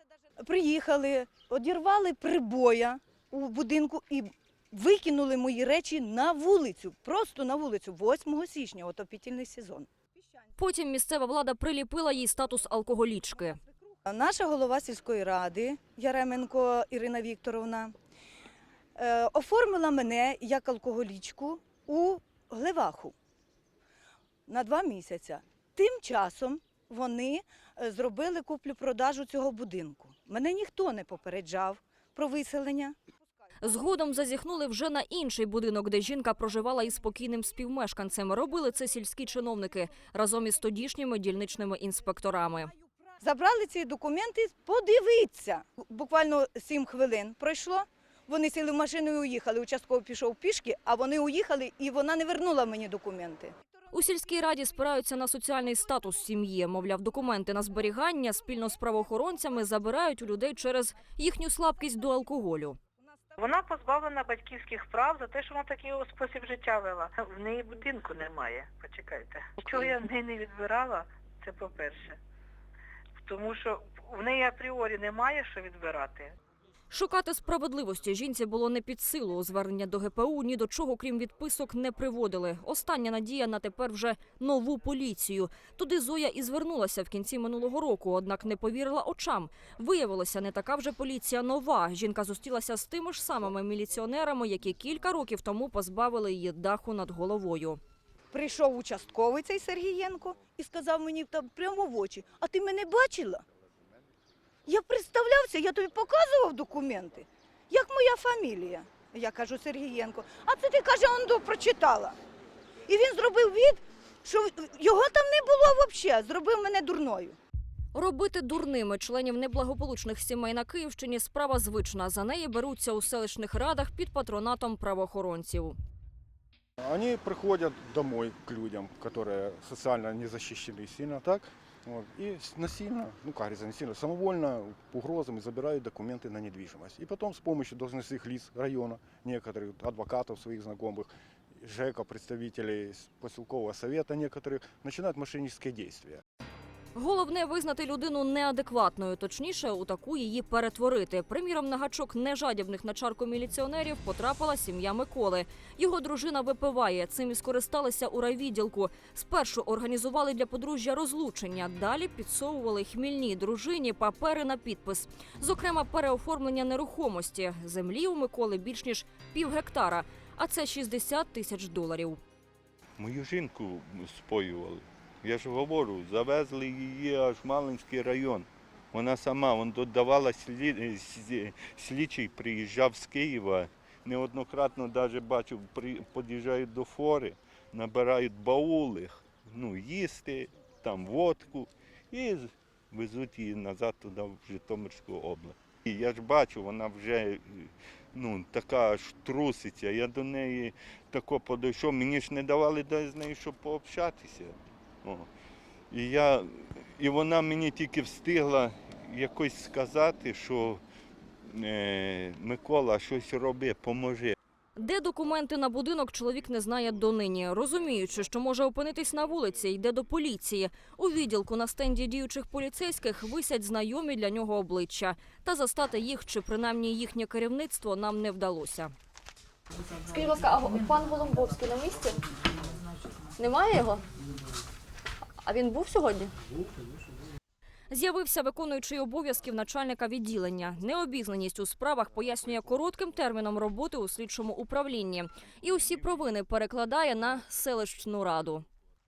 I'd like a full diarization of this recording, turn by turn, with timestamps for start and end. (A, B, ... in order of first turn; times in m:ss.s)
0:00.4-0:09.9 A
0:10.6-0:13.6 B
0:14.1-0:18.0 A
0:19.0-0:23.1 A
0:24.5-0:33.0 A
0:33.6-0:42.7 B
0:43.2-0:53.6 A
0:53.9-1:02.8 B
1:03.4-1:12.2 C
1:13.2-1:16.3 C
1:16.9-1:37.8 B
1:38.3-1:43.4 A
1:44.7-1:52.2 A
1:52.9-1:57.4 A
1:57.9-2:05.8 B
2:06.8-2:26.2 D
2:27.0-2:52.2 B
2:53.0-3:25.3 E
3:25.9-3:30.8 E
3:31.4-3:34.4 E
3:34.8-3:48.9 B
3:50.0-3:52.2 F
3:53.4-3:54.0 F
3:55.4-3:56.3 F
3:57.9-4:08.7 B